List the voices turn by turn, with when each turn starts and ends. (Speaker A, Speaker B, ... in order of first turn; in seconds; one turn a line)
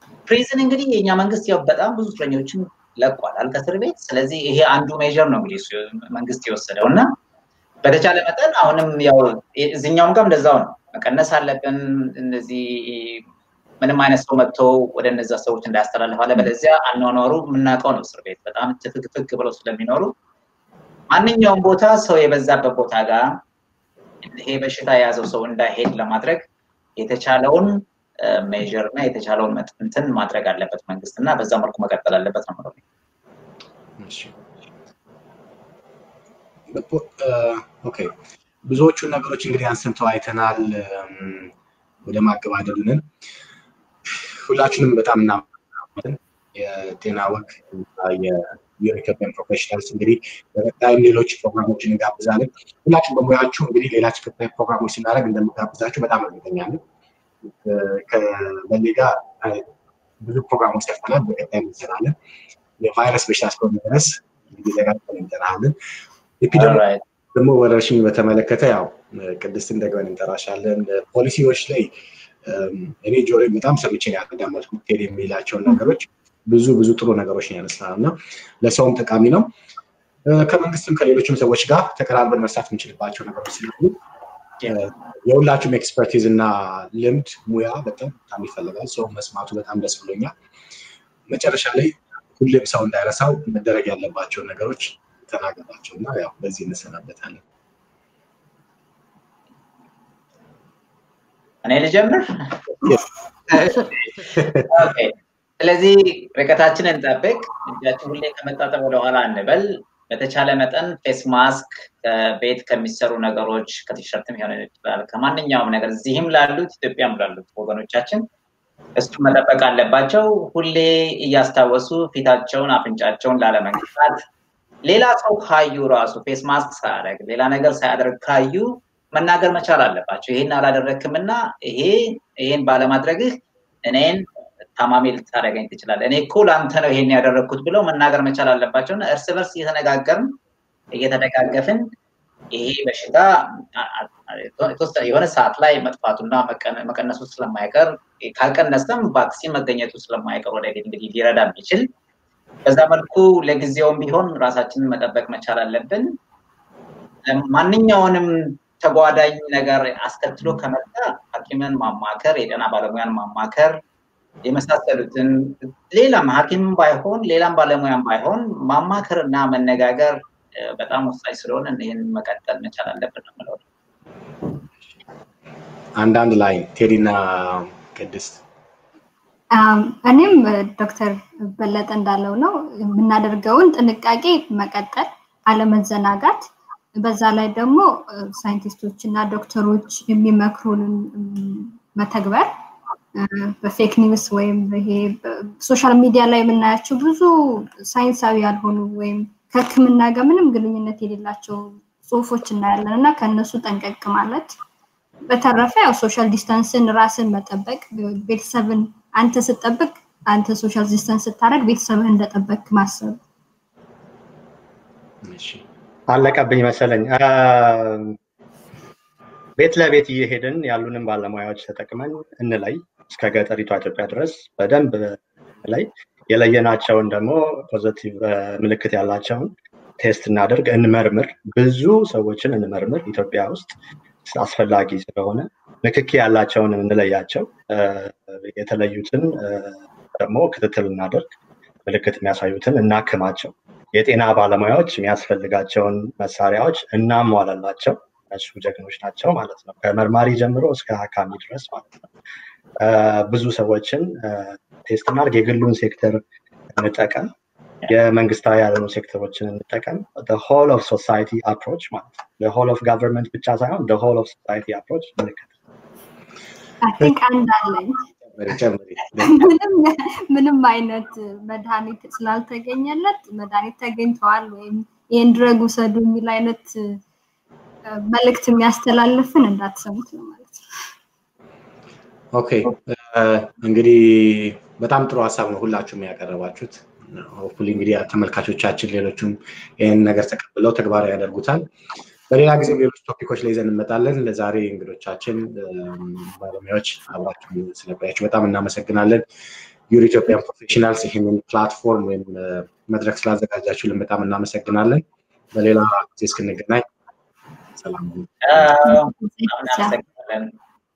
Speaker A: 0.3-7.1
Speaker A: 7.8-13.2
Speaker A: 13.8-20.1
Speaker A: 21.1-23.4
Speaker A: 24.2-26.4
Speaker A: 27.0-32.8
Speaker B: 34.0-34.4
Speaker B: 36.7-41.5
Speaker B: 42.0-43.1
Speaker B: 44.1-56.8
Speaker B: 57.4-59.7
Speaker B: 60.2-62.1
Speaker B: 62.8-65.8
Speaker B: 66.4-66.8
Speaker A: 66.5-67.0
Speaker B: 67.3-71.9
Speaker B: 72.4-79.5
Speaker B: 80.2-84.0
Speaker B: 84.6-90.3
Speaker B: 91.3-97.4
Speaker A: 101.6-103.0
Speaker A: 103.5-118.3
Speaker B: 104.3-104.7
Speaker A: 119.0-124.2
Speaker A: 124.8-134.3
Speaker A: 134.8-140.3
Speaker A: 140.9-141.9
Speaker A: 142.5-151.9
Speaker A: 152.7-156.2
Speaker A: 157.2-163.8
Speaker A: 164.4-173.6
Speaker B: 176.0-178.4
Speaker C: 179.5-192.5
Speaker C: 193.2-204.5
Speaker C: 205.3-213.2
Speaker B: 215.2-215.7
Speaker D: 216.1-218.2
Speaker D: 219.6-241.3
Speaker D: 241.9-252.0
Speaker D: 252.8-256.2
Speaker D: 256.7-257.3
Speaker D: 257.9-265.6
Speaker C: 266.8-268.1
Speaker B: 268.2-269.5
Speaker C: 269.2-277.0
Speaker C: 277.9-280.9
Speaker B: 282.3-291.7
Speaker B: 292.3-299.2
Speaker B: 299.9-306.9
Speaker B: 307.8-308.7
Speaker A: 308.4-310.5
Speaker C: 308.8-310.0